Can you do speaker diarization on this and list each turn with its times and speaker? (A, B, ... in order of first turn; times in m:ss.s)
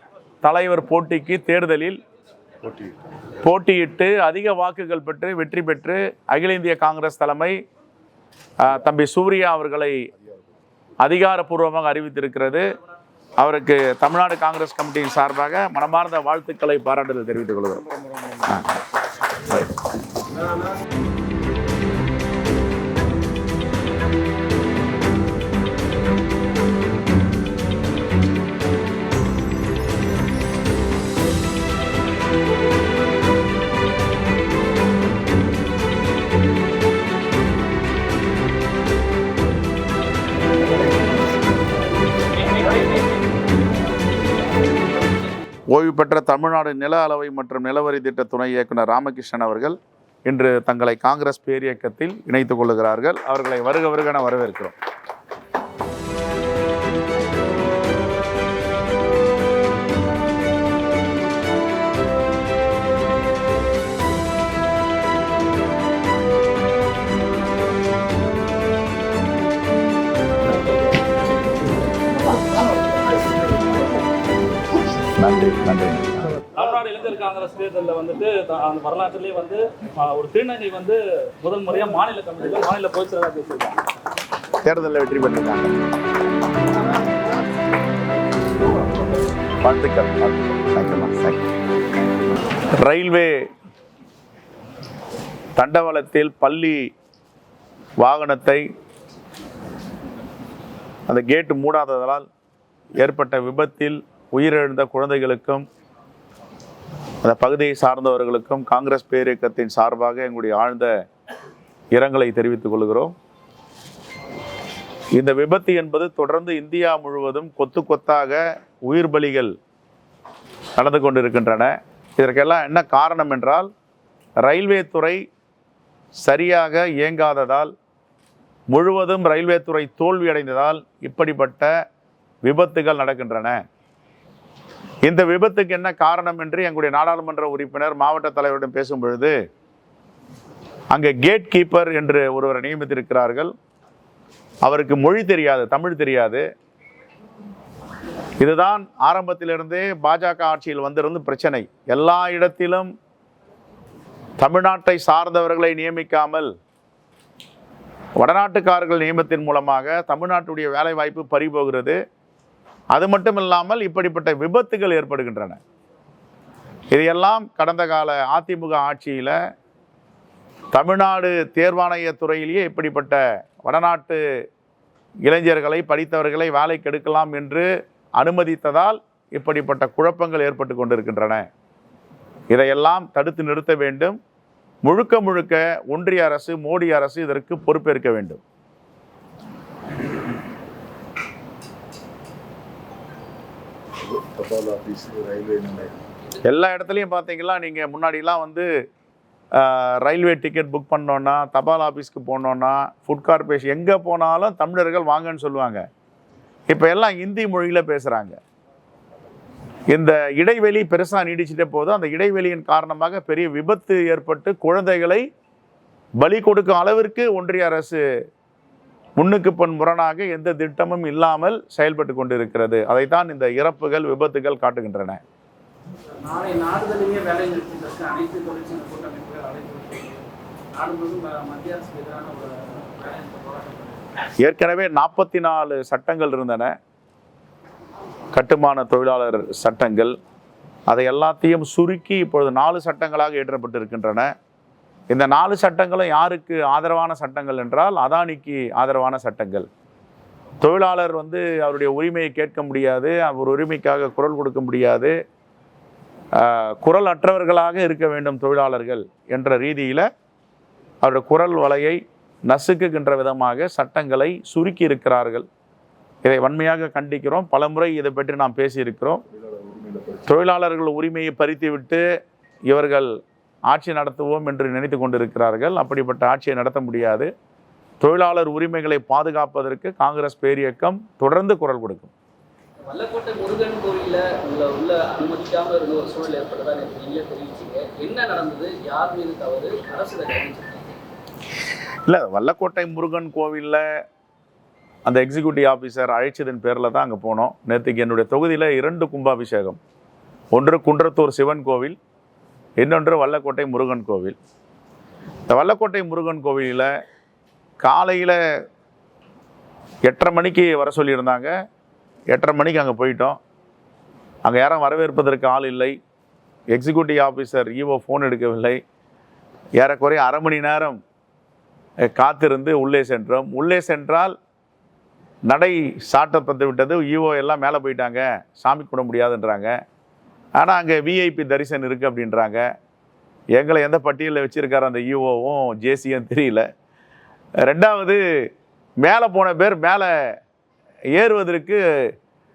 0:00.4-0:02.0 A
0:02.6-0:02.9 B
0:03.4-0:07.6 A
0:08.6-0:10.1 A
0:11.0-0:12.7 A
0:13.4-0:17.8 A
0:18.4-0:18.8 A
0:45.7-0:54.8 A
1:15.2-1:16.3 A
1:16.5-1:23.8 C
1:22.5-1:22.7 D
1:24.6-1:25.8 A
1:29.6-1:31.4 A
1:32.8-1:33.4 A
1:35.6-1:36.9 A
1:38.0-1:38.7 A
1:41.1-1:42.3 A
1:43.0-1:45.6 A
1:47.2-1:50.9 A
1:51.9-1:53.1 A
1:55.2-1:59.6 A
2:00.8-2:03.7 A
2:04.4-2:05.2 A
2:06.2-2:07.7 A
2:08.7-2:11.7 A
2:12.4-2:13.6 A
2:15.0-2:19.4 A
2:20.9-2:23.5 A
2:24.6-2:26.4 A
2:28.4-2:32.9 A
2:34.4-2:36.5 A
2:38.2-2:42.0 A
2:42.9-2:45.6 A
2:46.9-2:49.4 A
2:50.7-2:54.2 A
2:55.2-2:57.7 A
2:58.2-3:01.5 A
3:02.5-3:04.2 A
3:04.8-3:08.4 A
3:14.0-3:16.0 B
3:16.4-3:18.7 A
3:19.6-3:25.8 A
3:26.7-3:28.4 A
3:29.9-3:35.2 A
3:36.2-3:38.0 A
3:39.2-3:45.2 A
3:46.2-3:50.2 D
3:46.3-3:50.0 C
3:50.8-3:53.9 D
3:50.8-3:52.4 C
3:53.0-3:53.5 C
3:54.4-3:56.7 A
3:58.3-4:00.1 A
4:00.9-4:04.3 A
4:05.1-4:09.7 A
4:10.6-4:15.2 A
4:16.4-4:20.1 A
4:21.0-4:25.5 A
4:26.2-4:29.2 A
4:29.4-4:30.3 B
4:30.3-4:32.0 A
4:32.7-4:33.1 A
4:33.7-4:37.3 A
4:38.0-4:42.1 A
4:42.9-4:51.0 D
4:52.1-4:53.8 A
4:55.1-4:59.8 A
5:00.5-5:02.0 A
5:02.8-5:04.4 A
5:05.5-5:06.9 A
5:07.8-5:08.4 A
5:10.0-5:11.5 A
5:12.3-5:13.4 A
5:14.4-5:16.0 A
5:16.7-5:18.8 A
5:19.8-5:21.0 A
5:22.1-5:24.4 A
5:25.5-5:29.7 A
5:30.6-5:32.7 A
5:33.5-5:36.7 A
5:37.6-5:38.2 A
5:39.0-5:40.3 A
5:41.1-5:42.1 A